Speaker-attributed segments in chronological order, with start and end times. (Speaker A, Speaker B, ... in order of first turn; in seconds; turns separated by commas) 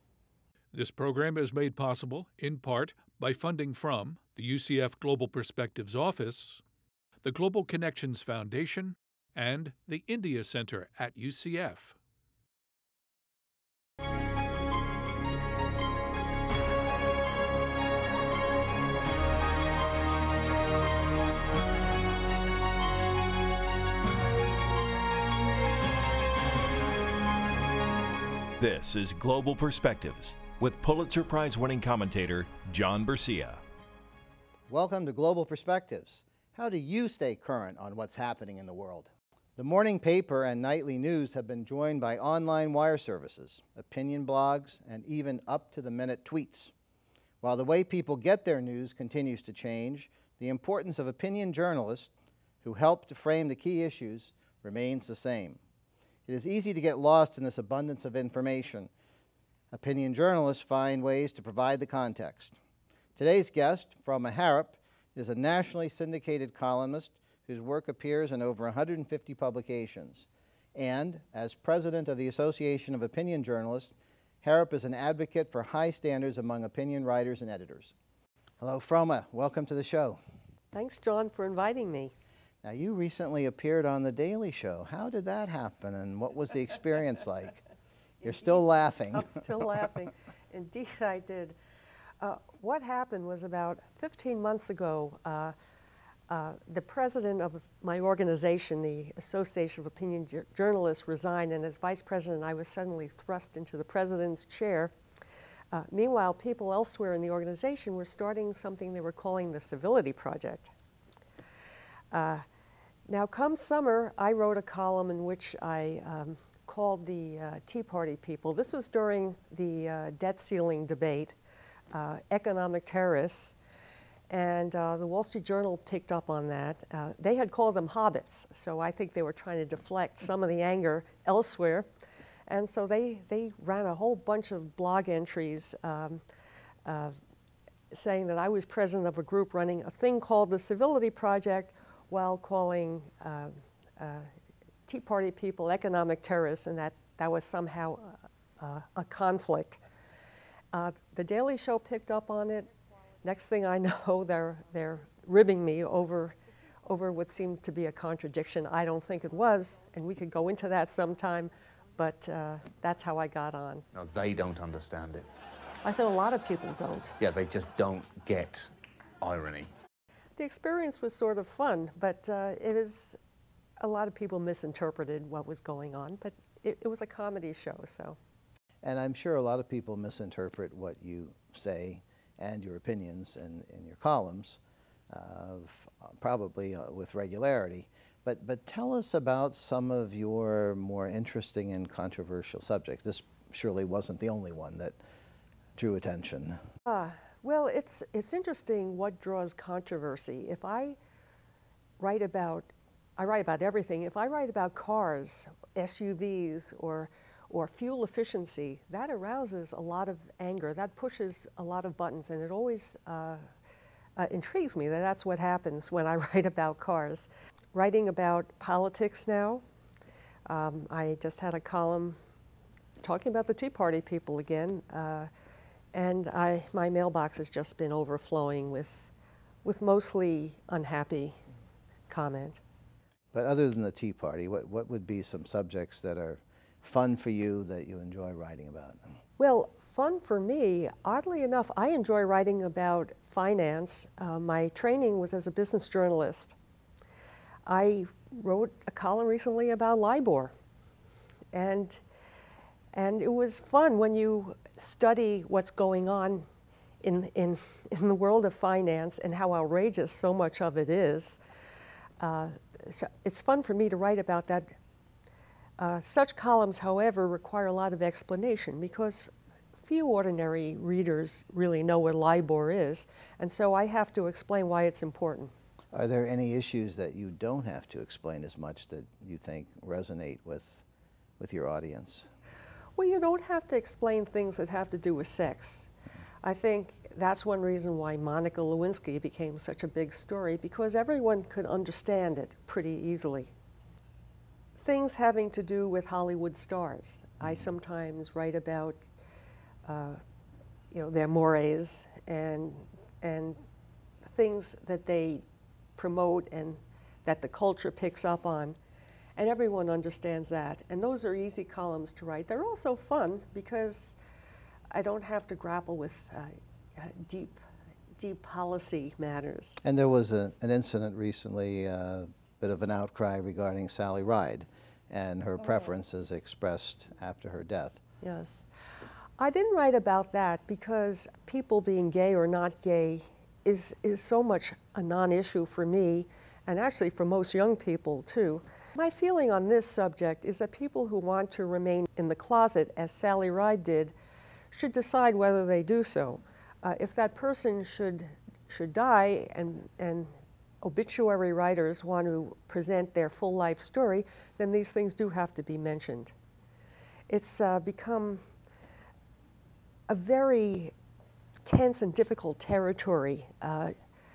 Speaker A: 0.7-6.6, Speaker A: 7.2-11.9, Speaker B: 28.6-33.6, Speaker C: 34.7-46.7, Speaker C: 47.4-52.1, Speaker C: 52.6-55.6, Speaker C: 56.3-58.9, Speaker C: 59.7-62.5, Speaker C: 63.1-77.9, Speaker C: 78.6-80.2, Speaker D: 80.7-82.1, Speaker C: 82.6-87.5, Speaker C: 88.2-89.4, Speaker D: 89.1-91.5, Speaker D: 92.2-95.5, Speaker D: 96.3-104.9, Speaker D: 105.7-110.7, Speaker D: 112.1-112.5, Speaker D: 113.1-121.3, Speaker D: 121.9-123.5, Speaker D: 124.3-131.8, Speaker D: 132.5-136.2, Speaker D: 136.8-137.2, Speaker D: 137.9-144.3, Speaker D: 144.8-149.8, Speaker D: 150.7-152.7, Speaker D: 153.2-156.3, Speaker D: 156.8-163.8, Speaker E: 163.9-165.3, Speaker D: 165.8-167.2, Speaker E: 167.2-168.7, Speaker E: 169.2-169.7, Speaker D: 170.4-173.2, Speaker D: 173.8-178.2, Speaker C: 178.8-184.6, Speaker C: 185.1-195.0, Speaker C: 195.8-196.6, Speaker D: 196.9-201.0, Speaker D: 202.0-213.4, Speaker D: 214.2-219.6, Speaker D: 220.4-222.2, Speaker D: 223.0-225.3, Speaker D: 225.9-229.1, Speaker D: 229.6-231.4, Speaker D: 232.1-232.6, Speaker C: 233.3-239.1, Speaker D: 239.4-246.6, Speaker D: 247.7-250.5, Speaker D: 251.5-252.0, Speaker D: 252.9-256.5, Speaker D: 257.0-261.4, Speaker D: 262.2-264.7, Speaker D: 265.8-275.5, Speaker C: 275.9-280.8, Speaker C: 281.4-282.3, Speaker D: 283.0-285.9, Speaker D: 286.4-293.5, Speaker D: 294.8-299.0, Speaker D: 299.8-300.2, Speaker D: 300.9-303.6, Speaker D: 304.2-305.4, Speaker D: 305.9-308.8, Speaker D: 309.4-314.1, Speaker D: 314.9-317.6, Speaker D: 318.1-319.8, Speaker C: 319.8-328.0, Speaker D: 328.2-328.6, Speaker D: 329.4-344.1, Speaker D: 344.7-356.3, Speaker D: 357.3-358.4, Speaker D: 360.1-360.9, Speaker D: 361.6-363.9